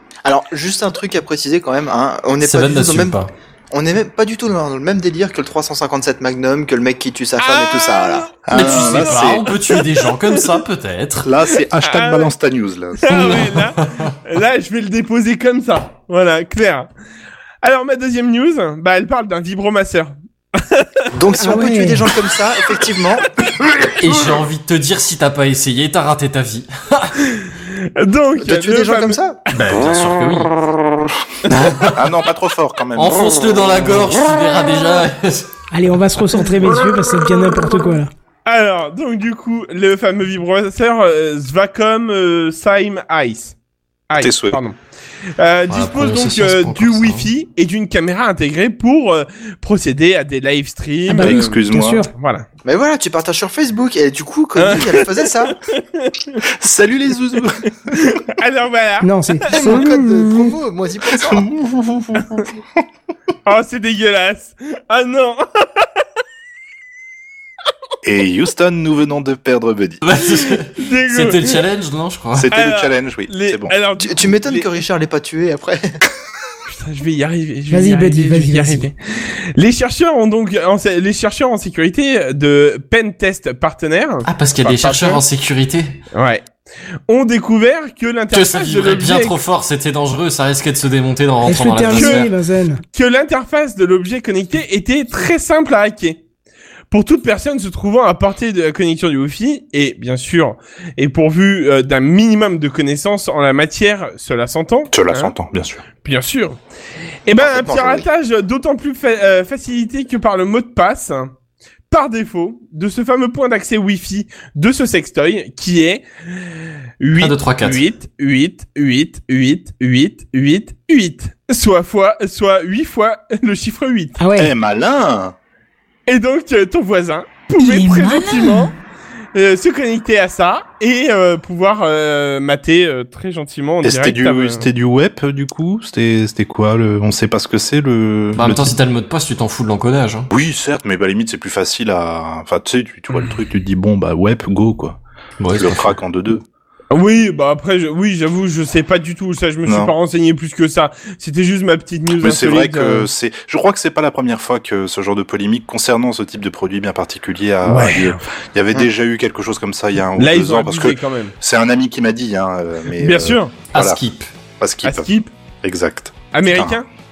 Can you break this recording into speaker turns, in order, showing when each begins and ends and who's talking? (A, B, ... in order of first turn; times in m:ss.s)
0:00.2-0:03.2 A
0:02.4-0:03.3 B
0:03.7-0:08.3 A
0:07.4-0:10.4 C
0:08.4-0:09.5 D
0:08.5-0:11.3 B
0:11.2-0:13.4 D
0:11.8-0:12.3 C
0:13.0-0:16.9 C
0:13.1-0:14.1 B
0:17.6-0:21.1 C
0:21.1-0:23.3 A
0:21.4-0:22.0 E
0:24.0-0:27.2 B
0:27.2-0:29.2 C
0:28.4-0:29.4 A
0:29.5-0:30.5 B
0:31.5-0:32.1 B
0:31.9-0:33.9 D
0:33.0-0:35.5 B
0:35.7-0:38.1 E
0:38.5-0:43.6 C
0:44.1-0:44.8 C
0:44.2-0:44.6 D
0:45.4-0:51.6 C
0:45.7-0:47.3 B
0:51.1-0:52.1 E
0:51.2-0:52.1 D
0:52.1-0:52.4 C
0:52.6-0:55.6 A
0:54.6-0:56.4 C
0:56.5-0:57.9 D
0:57.9-0:59.8 C
0:59.0-1:00.5 E
0:59.5-1:01.5 A
1:01.1-1:02.6 D
1:03.4-1:05.9 C
1:08.0-1:10.0 D
1:10.0-1:12.5 B
1:10.6-1:11.6 C
1:12.4-1:13.8 D
1:12.5-1:14.7 C
1:14.0-1:16.0 A
1:16.7-1:25.2 C
1:17.7-1:18.9 E
1:24.3-1:26.0 B
1:26.1-1:26.5 C
1:27.1-1:29.4 C
1:28.3-1:32.3 B
1:31.4-1:32.8 E
1:31.9-1:32.3 C
1:32.9-1:36.2 C
1:36.9-1:45.3 C
1:44.9-1:45.8 D
1:45.9-1:46.6 C
1:47.3-1:51.3 C
1:47.4-1:48.1 A
1:51.9-2:04.2 C
1:57.2-1:57.8 B
2:04.2-2:04.5 E
2:04.4-2:05.4 D
2:06.1-2:08.7 C
2:07.6-2:08.7 E
2:09.3-2:14.6 C
2:13.8-2:18.8 D
2:18.4-2:20.3 B
2:20.3-2:25.0 D
2:25.4-2:26.0 B
2:25.6-2:26.4 D
2:26.9-2:33.1 C
2:29.7-2:29.9 D
2:32.2-2:44.0 D
2:37.6-2:38.2 C
2:40.2-2:41.3 C
2:43.0-2:43.6 C
2:43.7-2:44.3 B
2:44.6-2:45.1 D
2:44.8-2:45.3 C
2:45.6-2:46.8 D
2:46.3-2:46.9 C